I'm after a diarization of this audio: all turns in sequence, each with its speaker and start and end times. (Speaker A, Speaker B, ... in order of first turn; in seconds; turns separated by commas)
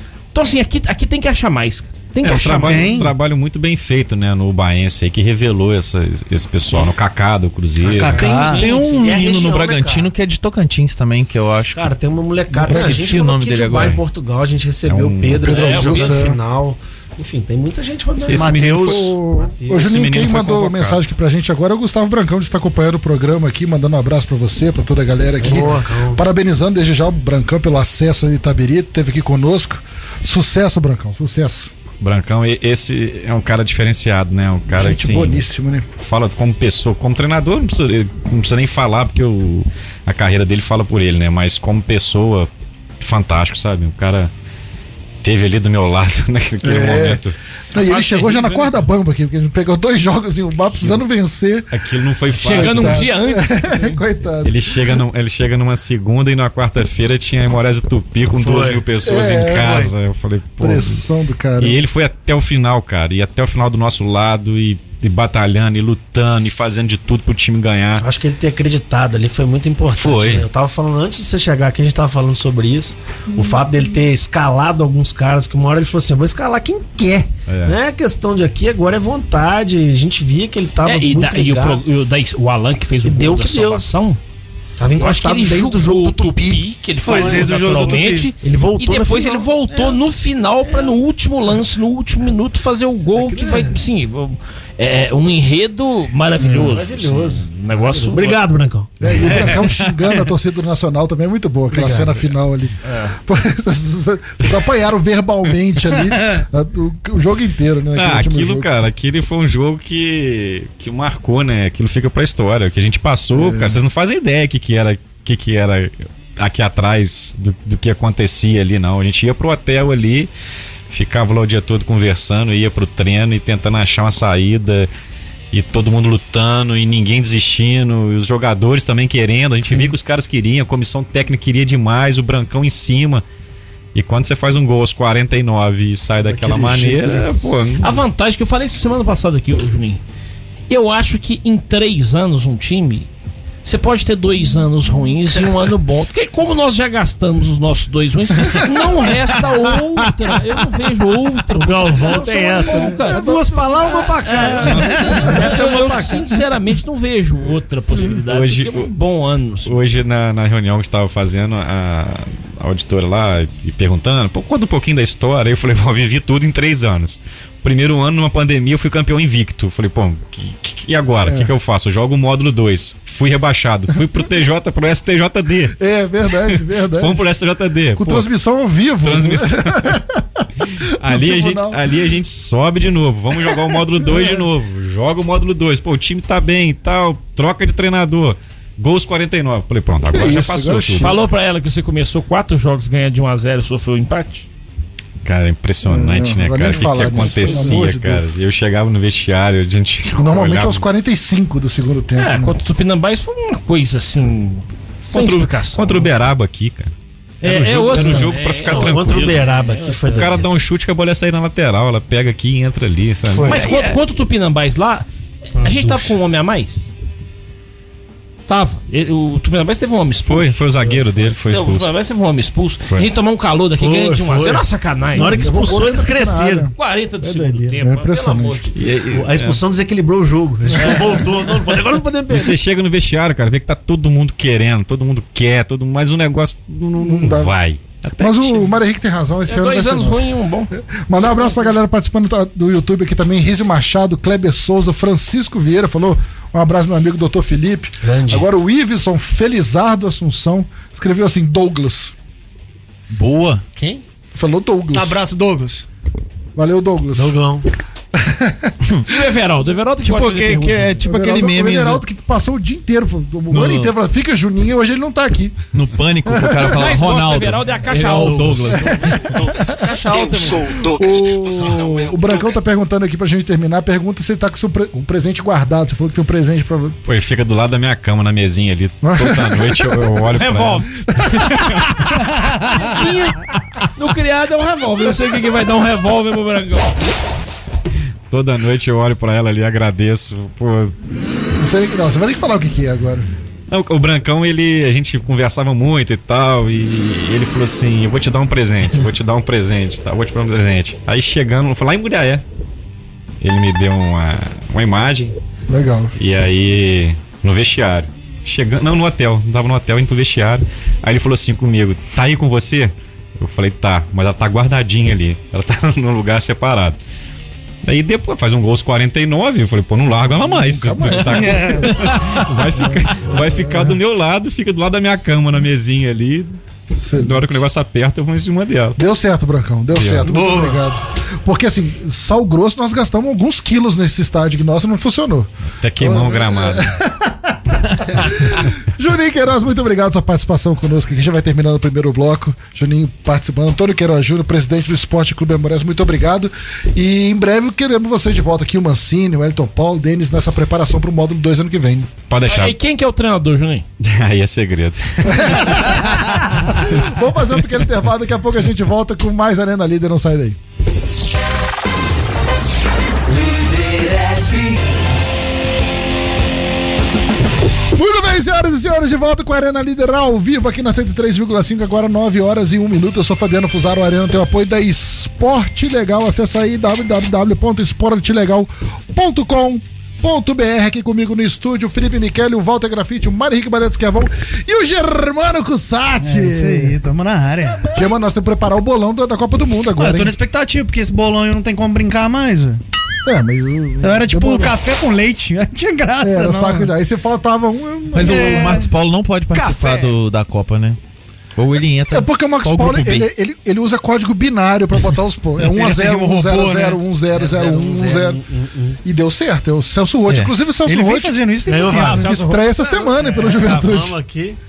Speaker A: 0.3-3.0, Speaker B: 2.2-8.2, Speaker C: 2.6-3.1, Speaker C: 7.8-8.6, Speaker D: 7.9-10.1, Speaker E: 8.1-11.9, Speaker A: 8.2-9.2, Speaker D: 11.7-18.7, Speaker E: 12.5-14.0, Speaker F: 12.6-13.1, Speaker B: 14.8-15.7, Speaker F: 15.4-16.4, Speaker A: 15.5-16.2, Speaker B: 18.3-19.1, Speaker C: 18.3-19.1, Speaker F: 18.8-31.7, Speaker D: 19.3-19.9, Speaker B: 19.8-21.0, Speaker D: 25.4-26.2, Speaker B: 32.0-35.4, Speaker F: 34.7-35.9, Speaker B: 36.0-42.5, Speaker B: 43.0-44.3, Speaker B: 45.2-47.4, Speaker F: 46.6-51.7, Speaker A: 47.7-48.9, Speaker B: 51.7-53.1, Speaker F: 52.3-55.0, Speaker A: 52.4-54.0, Speaker B: 54.4-61.0, Speaker D: 58.4-58.8, Speaker F: 59.0-59.9, Speaker F: 60.6-61.8, Speaker B: 61.6-68.0, Speaker D: 68.0-81.8, Speaker B: 70.0-70.5, Speaker B: 77.5-77.8, Speaker A: 80.8-84.2, Speaker D: 83.0-83.8, Speaker D: 84.8-90.0, Speaker A: 85.0-98.4, Speaker C: 87.0-88.3, Speaker D: 90.6-90.9, Speaker D: 93.2-93.8, Speaker F: 96.4-96.8, Speaker D: 96.5-99.1, Speaker F: 99.0-108.7, Speaker D: 101.7-102.3, Speaker A: 102.8-103.2, Speaker B: 107.9-120.3, Speaker F: 113.3-113.8, Speaker B: 120.9-124.9, Speaker B: 125.5-133.2, Speaker B: 133.9-138.0, Speaker F: 136.2-137.2, Speaker A: 137.8-140.0, Speaker A: 140.7-143.1, Speaker A: 143.6-159.8, Speaker D: 151.5-156.3, Speaker F: 152.0-153.6, Speaker B: 154.6-155.4, Speaker B: 158.2-158.9, Speaker B: 159.6-175.8, Speaker F: 171.2-171.5, Speaker F: 175.8-177.3, Speaker B: 176.5-178.3, Speaker F: 178.0-181.8, Speaker B: 179.0-180.0, Speaker B: 180.8-191.2, Speaker F: 183.5-184.5, Speaker F: 190.1-191.2, Speaker A: 191.0-194.5, Speaker B: 195.2-200.8, Speaker F: 195.8-198.3, Speaker A: 196.9-197.8, Speaker F: 200.2-202.5, Speaker A: 202.2-206.1, Speaker B: 205.1-206.9, Speaker A: 207.4-210.3, Speaker B: 207.4-209.6, Speaker D: 207.8-210.5, Speaker B: 210.1-213.8, Speaker A: 213.4-216.9, Speaker D: 215.6-216.1, Speaker A: 218.5-220.6, Speaker B: 220.2-221.9, Speaker D: 220.8-221.2, Speaker A: 221.4-225.8, Speaker D: 223.8-227.8, Speaker F: 225.2-226.7, Speaker A: 226.8-228.8, Speaker F: 227.8-228.6, Speaker B: 228.7-229.6, Speaker D: 229.1-232.6, Speaker B: 232.3-237.8, Speaker F: 236.9-237.5, Speaker E: 238.0-238.6, Speaker F: 238.2-252.1, Speaker A: 239.5-240.7, Speaker D: 248.0-248.5, Speaker E: 253.1-253.6, Speaker D: 253.8-254.0, Speaker F: 254.3-255.2, Speaker C: 254.9-255.8, Speaker F: 256.6-257.3, Speaker D: 257.1-257.7, Speaker F: 258.1-258.7, Speaker A: 259.1-261.0, Speaker E: 260.0-262.0, Speaker F: 261.0-265.6, Speaker E: 263.5-263.9, Speaker E: 265.7-269.6, Speaker F: 266.2-266.8, Speaker A: 266.7-270.8, Speaker F: 268.8-269.9, Speaker F: 270.8-277.0, Speaker B: 277.1-282.0, Speaker F: 279.0-280.1, Speaker A: 280.3-287.1, Speaker F: 281.1-281.5, Speaker B: 288.3-290.9, Speaker F: 291.6-293.3, Speaker B: 293.7-302.4, Speaker B: 303.4-305.3, Speaker F: 305.7-306.1, Speaker B: 306.2-317.0, Speaker B: 317.8-326.6, Speaker F: 320.4-322.0, Speaker C: 321.3-321.9, Speaker F: 322.7-324.0, Speaker F: 326.9-327.5, Speaker B: 327.1-329.0, Speaker F: 329.0-352.1, Speaker B: 329.9-330.3, Speaker C: 330.3-330.8, Speaker B: 335.8-336.9, Speaker B: 352.3-352.8, Speaker A: 352.4-353.9, Speaker B: 354.0-356.1, Speaker F: 355.2-360.6, Speaker F: 367.9-387.0, Speaker C: 386.2-387.9, Speaker F: 387.8-390.4, Speaker C: 390.0-392.8, Speaker F: 393.2-394.8, Speaker C: 394.0-396.9, Speaker F: 396.2-398.9, Speaker E: 398.1-401.0, Speaker C: 398.2-398.9, Speaker C: 399.5-399.9, Speaker E: 401.6-403.3, Speaker F: 402.1-408.4, Speaker C: 405.6-407.0, Speaker D: 407.3-409.0, Speaker F: 409.0-411.4, Speaker C: 410.8-412.3, Speaker D: 411.7-414.6, Speaker A: 411.7-412.5, Speaker F: 412.1-414.1